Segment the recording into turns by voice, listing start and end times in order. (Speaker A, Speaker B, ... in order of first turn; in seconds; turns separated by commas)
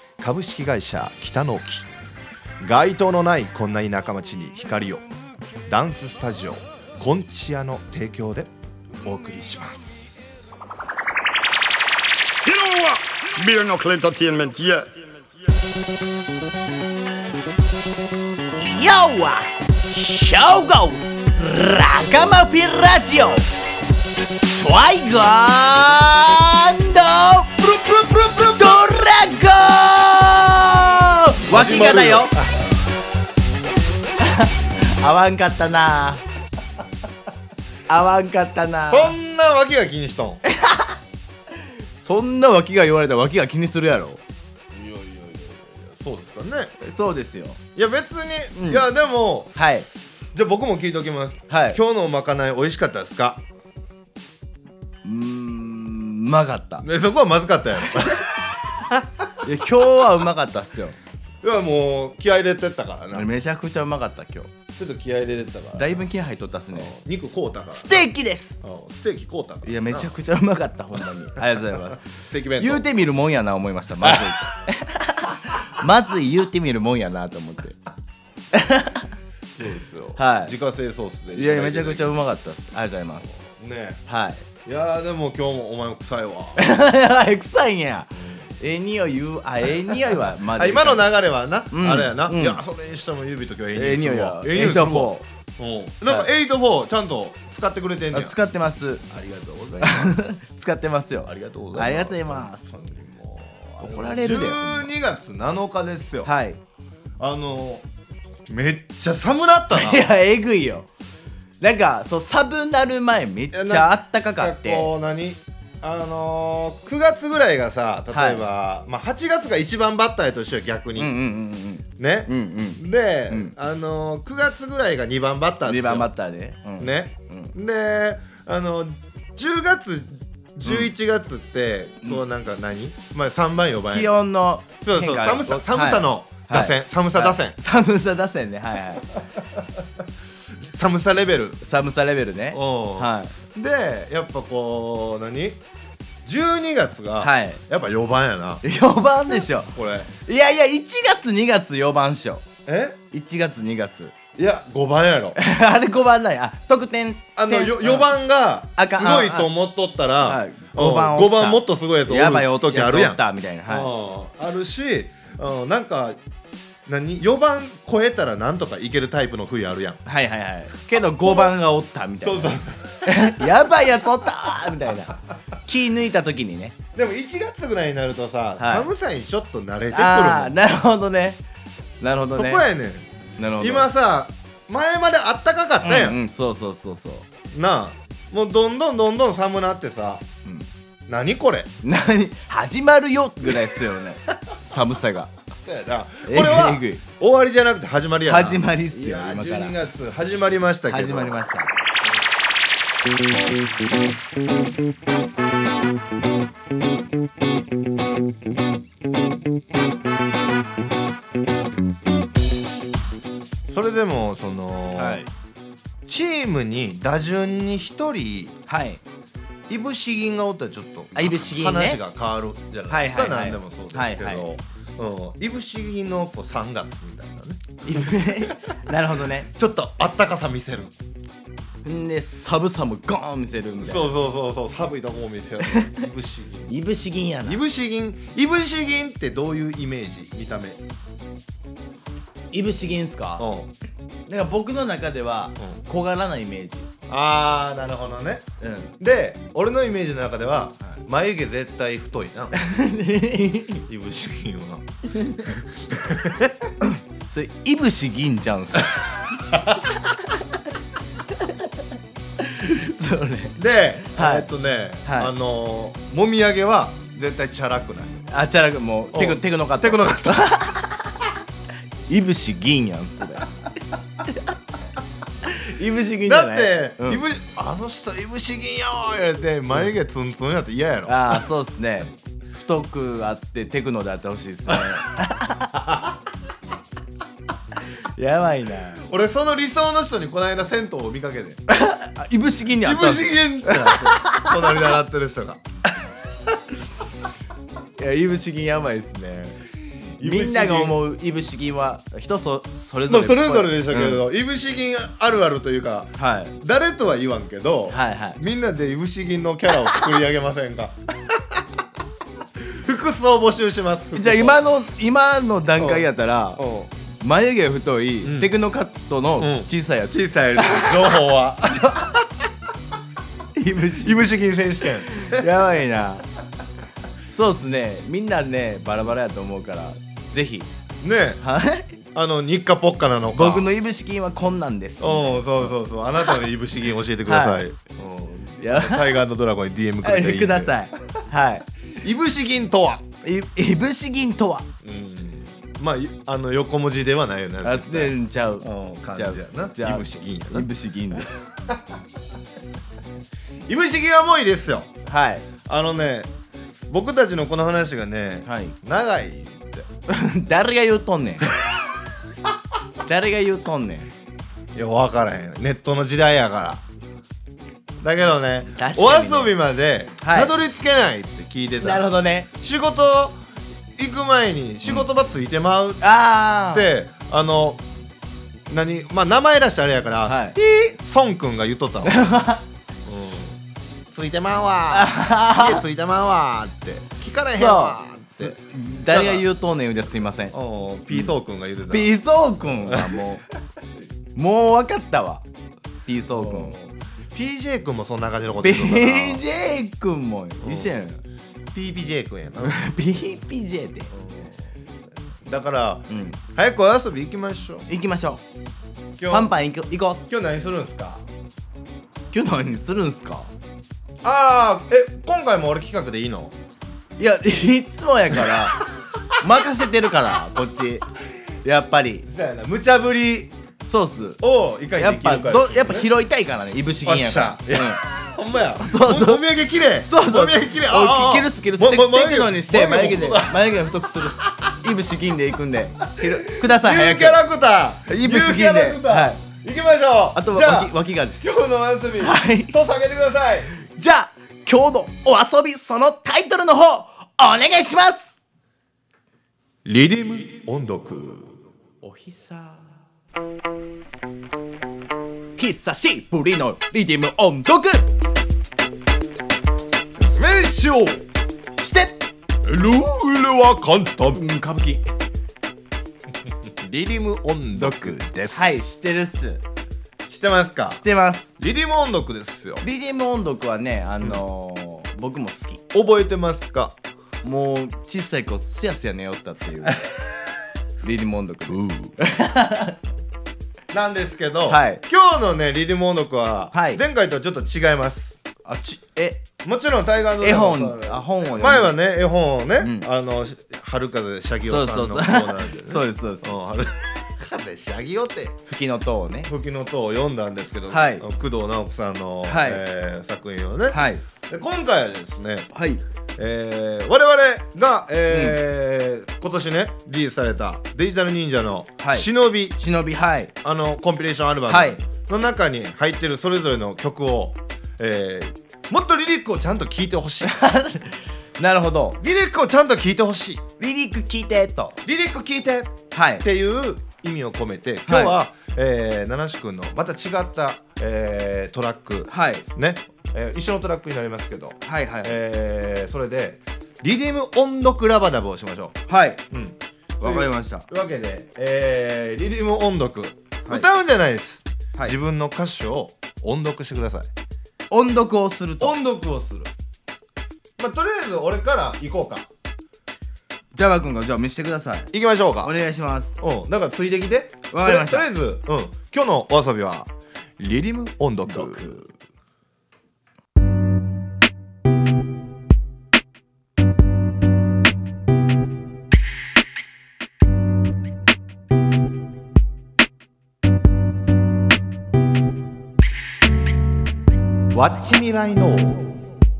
Speaker A: 0.2-1.9, Speaker A: 2.6-5.0, Speaker A: 5.7-8.5, Speaker A: 9.0-10.1, Speaker B: 12.4-15.1, Speaker C: 18.5-23.4, Speaker C: 24.5-27.5, Speaker A: 27.6-28.8, Speaker C: 28.5-32.4, Speaker A: 31.5-32.6, Speaker C: 34.2-36.2, Speaker C: 37.9-39.1, Speaker A: 38.9-40.4, Speaker C: 40.5-41.0, Speaker C: 42.0-44.2, Speaker A: 44.7-46.7, Speaker C: 46.8-47.6, Speaker A: 47.8-49.7, Speaker C: 48.5-48.9, Speaker C: 49.5-49.9, Speaker A: 50.3-53.4, Speaker C: 51.5-51.8, Speaker C: 55.0-56.9, Speaker A: 56.8-59.4, Speaker C: 59.4-61.0, Speaker A: 61.4-63.3, Speaker C: 63.1-64.5, Speaker A: 64.7-66.0, Speaker C: 65.8-67.0, Speaker A: 66.7-68.1, Speaker C: 67.7-68.6, Speaker A: 68.6-70.1, Speaker C: 69.6-72.0, Speaker A: 71.5-72.9, Speaker C: 72.6-77.8, Speaker A: 74.0-74.4, Speaker C: 78.5-79.1, Speaker A: 79.5-82.2, Speaker C: 80.2-80.5, Speaker C: 81.3-83.3, Speaker A: 83.3-84.0, Speaker C: 84.1-84.4, Speaker A: 84.6-86.6, Speaker C: 86.6-91.1, Speaker A: 90.5-98.4, Speaker C: 91.7-92.6, Speaker C: 93.7-95.2, Speaker C: 98.1-99.0, Speaker A: 99.1-100.3, Speaker C: 99.8-102.7, Speaker A: 101.2-106.3, Speaker C: 103.8-104.9, Speaker C: 106.2-106.6, Speaker A: 107.2-107.8, Speaker A: 108.5-110.1, Speaker C: 109.7-110.9, Speaker C: 111.6-114.9, Speaker A: 113.5-121.2, Speaker C: 118.1-118.4, Speaker C: 121.0-123.5, Speaker A: 122.0-126.1, Speaker C: 125.7-127.5, Speaker A: 126.8-134.1, Speaker C: 133.9-139.1, Speaker A: 134.8-137.6, Speaker A: 140.6-141.6, Speaker C: 141.6-143.3, Speaker A: 142.5-145.6, Speaker A: 146.2-148.6, Speaker C: 147.2-147.6, Speaker C: 148.6-152.4, Speaker A: 149.7-150.1, Speaker A: 152.7-153.0, Speaker C: 153.1-154.1, Speaker A: 154.3-155.4, Speaker C: 155.4-158.1, Speaker A: 157.3-166.2, Speaker C: 158.8-159.5, Speaker C: 160.2-163.9, Speaker A: 166.9-170.0, Speaker C: 170.1-176.8, Speaker A: 172.2-173.5, Speaker A: 176.9-180.6, Speaker C: 178.6-178.9, Speaker C: 179.9-181.4, Speaker C: 182.0-182.7, Speaker A: 182.3-183.1, Speaker C: 183.4-183.9, Speaker A: 183.6-186.2, Speaker C: 185.8-187.2, Speaker A: 187.5-190.2, Speaker A: 191.1-191.7, Speaker C: 191.8-195.3, Speaker A: 195.6-201.4, Speaker C: 196.2-197.0, Speaker C: 198.3-199.8, Speaker C: 200.9-201.7, Speaker A: 213.7-215.2, Speaker C: 214.9-215.3, Speaker A: 216.1-218.6, Speaker C: 218.7-219.0, Speaker A: 219.7-228.6, Speaker C: 221.2-222.0, Speaker C: 222.9-224.4, Speaker C: 227.8-229.5, Speaker A: 229.5-230.9, Speaker C: 231.8-234.1, Speaker A: 233.8-236.7, Speaker C: 235.6-236.0, Speaker C: 236.7-237.6, Speaker A: 237.4-240.8, Speaker C: 242.5-243.5, Speaker A: 243.4-243.7, Speaker C: 244.3-246.9, Speaker A: 247.1-248.5, Speaker C: 248.6-248.9, Speaker A: 249.0-252.5, Speaker C: 252.6-253.8, Speaker A: 253.9-256.7, Speaker C: 256.8-259.1, Speaker A: 259.5-259.9, Speaker C: 262.4-263.6, Speaker A: 263.6-268.3, Speaker C: 264.1-264.5, Speaker C: 265.0-265.3, Speaker C: 268.3-271.1, Speaker A: 269.1-270.7, Speaker C: 272.1-273.5, Speaker C: 275.4-277.2, Speaker A: 276.2-281.4, Speaker C: 281.1-285.8, Speaker A: 284.7-285.0, Speaker A: 285.9-286.1, Speaker C: 288.0-289.0, Speaker A: 289.0-291.6, Speaker C: 291.7-294.6, Speaker A: 292.8-295.6, Speaker C: 298.0-299.6, Speaker A: 300.2-301.0, Speaker C: 300.2-304.2, Speaker A: 303.1-311.0, Speaker C: 306.2-306.5, Speaker C: 307.9-308.4, Speaker A: 312.6-314.6, Speaker C: 314.1-316.6, Speaker A: 315.8-316.9, Speaker C: 317.2-322.1, Speaker A: 318.2-318.5, Speaker A: 319.4-322.2, Speaker C: 323.6-324.2, Speaker A: 324.0-325.5, Speaker C: 325.1-326.2, Speaker C: 327.3-330.7, Speaker A: 331.0-331.4, Speaker C: 331.4-331.9, Speaker A: 332.1-333.7, Speaker C: 333.3-335.7, Speaker A: 335.0-340.7, Speaker C: 337.2-337.6, Speaker C: 338.6-339.1, Speaker C: 340.0-341.6, Speaker A: 342.0-343.1, Speaker C: 343.2-344.7, Speaker A: 344.8-350.7, Speaker C: 347.6-351.5, Speaker A: 353.7-354.9, Speaker C: 355.1-355.5, Speaker A: 355.6-356.3, Speaker A: 356.9-359.9, Speaker C: 358.4-358.7, Speaker C: 360.1-361.5, Speaker C: 363.0-364.1, Speaker A: 364.7-366.8, Speaker A: 368.0-373.4, Speaker C: 368.7-369.5, Speaker C: 370.2-370.5, Speaker C: 371.8-372.5, Speaker A: 374.0-376.0, Speaker C: 376.0-376.9, Speaker A: 376.7-377.8, Speaker A: 378.7-382.3, Speaker C: 380.2-380.6, Speaker C: 382.0-382.6, Speaker A: 383.1-383.6, Speaker A: 384.1-389.4, Speaker C: 384.9-385.8, Speaker C: 387.5-390.6, Speaker A: 390.5-392.1, Speaker C: 391.9-393.4, Speaker A: 392.8-393.2, Speaker C: 394.3-395.4, Speaker C: 396.1-396.8, Speaker A: 396.3-399.4, Speaker C: 398.6-401.2, Speaker A: 400.6-400.9, Speaker A: 401.7-402.9, Speaker C: 402.6-404.1, Speaker A: 404.1-404.6, Speaker A: 405.4-407.9, Speaker C: 406.1-406.4, Speaker C: 407.9-408.4, Speaker A: 409.2-409.5, Speaker C: 409.3-410.2, Speaker A: 410.3-411.2, Speaker C: 412.3-413.5, Speaker A: 414.2-416.5, Speaker C: 417.2-418.8, Speaker C: 419.4-421.1, Speaker C: 421.6-422.3, Speaker A: 422.3-423.5, Speaker C: 423.8-424.4, Speaker A: 424.4-426.1, Speaker C: 424.9-428.0, Speaker A: 427.0-433.7, Speaker C: 428.8-437.4, Speaker A: 436.2-443.7, Speaker C: 438.1-439.4, Speaker C: 440.3-441.5, Speaker C: 442.2-442.8, Speaker C: 443.9-448.4, Speaker A: 449.8-451.6, Speaker C: 452.0-452.9, Speaker C: 455.6-458.1, Speaker A: 460.1-461.2, Speaker C: 461.8-462.2, Speaker A: 462.6-464.4, Speaker C: 464.3-465.1, Speaker A: 466.8-468.7, Speaker C: 467.7-469.6, Speaker A: 470.3-471.0, Speaker C: 470.9-471.5, Speaker A: 471.6-472.8, Speaker C: 472.8-475.8, Speaker A: 475.9-477.0, Speaker C: 477.4-480.0, Speaker C: 481.0-483.0, Speaker A: 481.7-482.1, Speaker A: 483.9-488.4, Speaker C: 484.7-485.0, Speaker C: 486.7-487.0, Speaker C: 488.6-489.4, Speaker A: 489.6-498.6, Speaker C: 490.4-492.0, Speaker C: 492.8-493.1, Speaker C: 494.6-496.6, Speaker C: 498.7-499.5, Speaker A: 499.4-505.7, Speaker C: 500.9-501.2, Speaker C: 502.4-502.8, Speaker C: 503.9-504.2, Speaker C: 505.7-506.0, Speaker A: 506.4-512.8, Speaker C: 508.3-508.6, Speaker C: 512.0-513.5, Speaker A: 513.6-520.5, Speaker C: 514.7-515.0, Speaker C: 520.4-522.2, Speaker A: 522.2-523.6, Speaker C: 523.8-525.0, Speaker A: 525.0-539.0, Speaker C: 526.1-526.4, Speaker C: 528.1-528.4, Speaker C: 532.3-532.6, Speaker C: 534.8-535.4, Speaker C: 539.1-539.4, Speaker A: 539.5-547.3, Speaker C: 540.2-540.9, Speaker C: 547.9-549.0, Speaker A: 548.8-549.7, Speaker A: 550.8-552.5, Speaker C: 553.7-556.4, Speaker A: 555.1-555.7, Speaker A: 556.4-562.0, Speaker C: 557.7-558.3, Speaker C: 561.5-562.1, Speaker A: 577.7-579.2